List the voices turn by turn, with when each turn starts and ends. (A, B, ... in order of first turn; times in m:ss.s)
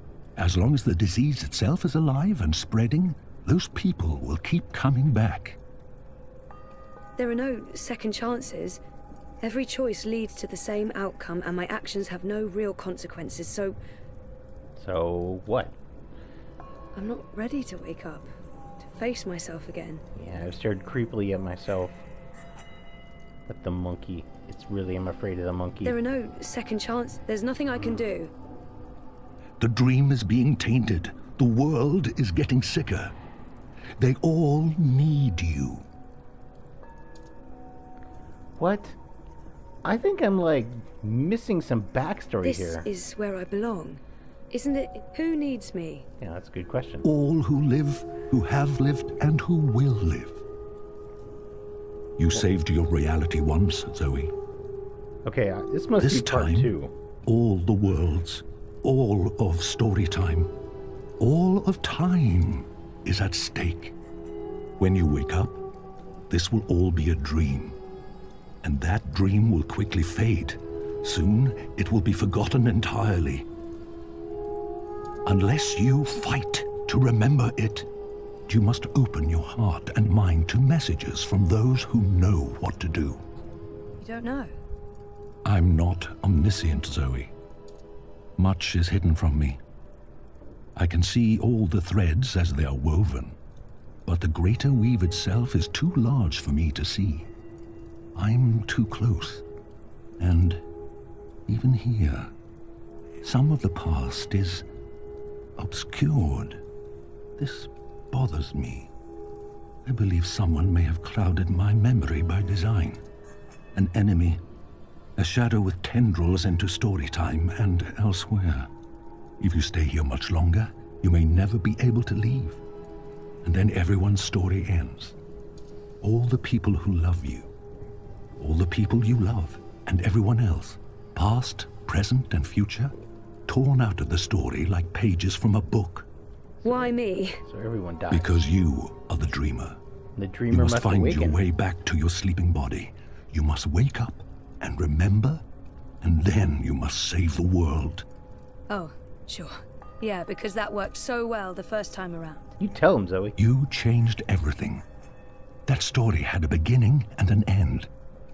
0:00.4-0:05.6 A
0:07.2-0:08.8 B
0:09.4-0:13.8 B
0:14.8-0:15.8 C
0:16.9-0:20.0 B
0:20.1-0:22.0 C
0:23.5-0:26.0 C
0:25.8-0:28.3 B
0:29.6-0:33.1 A
0:34.0-0:35.8 A
0:38.6-0:39.0 C
0:39.8-0:42.9 C
0:42.4-0:46.0 B
0:46.2-0:47.1 C
0:47.0-0:50.4 A
0:52.2-0:54.3 A
0:55.2-0:56.9 C
0:56.0-0:56.7 A
0:57.2-1:00.5 A
1:01.2-1:03.9 A
1:04.8-1:05.6 A
1:06.3-1:07.8 A
1:08.6-1:13.4 A
1:15.2-1:17.9 A
1:18.5-1:23.2 A
1:24.0-1:24.6 B
1:25.4-1:27.3 A
1:28.4-1:29.6 A
1:30.8-1:33.4 A
1:34.0-1:37.3 A
1:38.1-1:39.4 A
1:40.2-1:40.6 A
1:41.5-1:42.3 A
1:43.2-1:44.6 A
1:45.6-1:46.6 A
1:47.4-1:48.9 A
1:49.8-1:53.0 A
1:53.7-1:54.4 A
1:55.2-1:58.7 A
1:59.4-2:02.6 A
2:03.4-2:05.2 A
2:06.0-2:07.5 A
2:08.4-2:12.9 A
2:13.5-2:16.1 A
2:16.6-2:18.4 C
2:16.6-2:17.4 B
2:18.1-2:19.8 A
2:20.2-2:21.4 C
2:20.5-2:25.4 A
2:26.0-2:28.0 A
2:28.7-2:32.6 B
2:32.6-2:33.4 C
2:33.4-2:34.8 A
2:35.7-2:37.9 A